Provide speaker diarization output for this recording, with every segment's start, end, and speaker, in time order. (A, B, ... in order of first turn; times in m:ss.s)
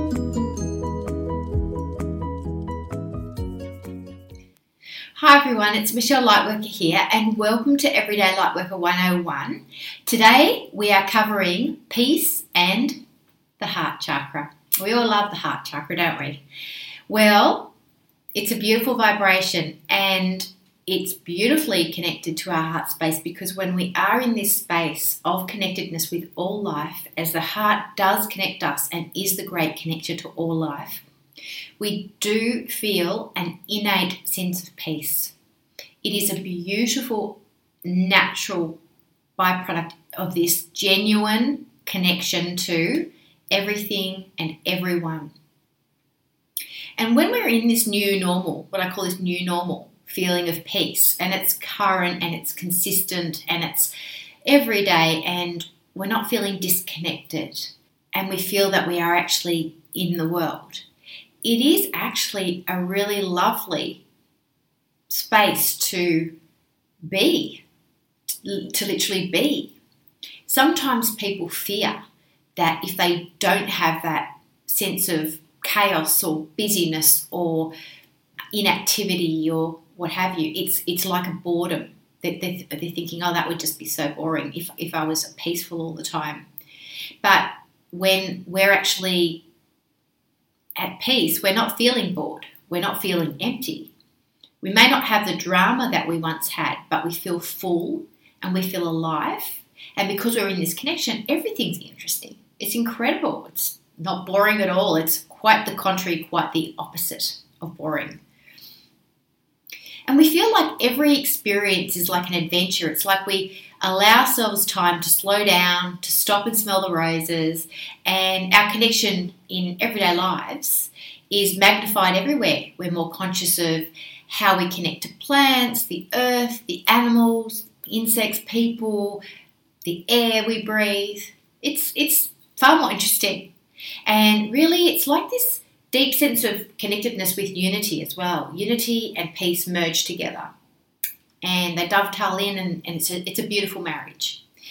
0:05.1-0:13.0 A
0:13.6-0:16.4 A
0:17.1-0:17.7 A
0:18.3-0:31.0 A
0:31.8-0:35.3 A
0:36.0-0:38.8 A
0:39.4-0:45.3 A
0:47.0-0:53.9 A
0:54.4-1:00.8 A
1:01.4-1:04.0 A
1:05.1-1:06.3 A
1:07.0-1:07.6 A
1:08.4-1:09.7 A
1:10.4-1:12.0 A
1:12.6-1:17.7 A
1:18.5-1:26.4 A
1:27.2-1:29.4 A
1:30.8-1:33.9 A
1:34.6-1:48.2 A
1:50.1-2:09.2 A
2:09.8-2:13.5 A
2:14.1-2:20.5 A
2:21.4-2:24.4 A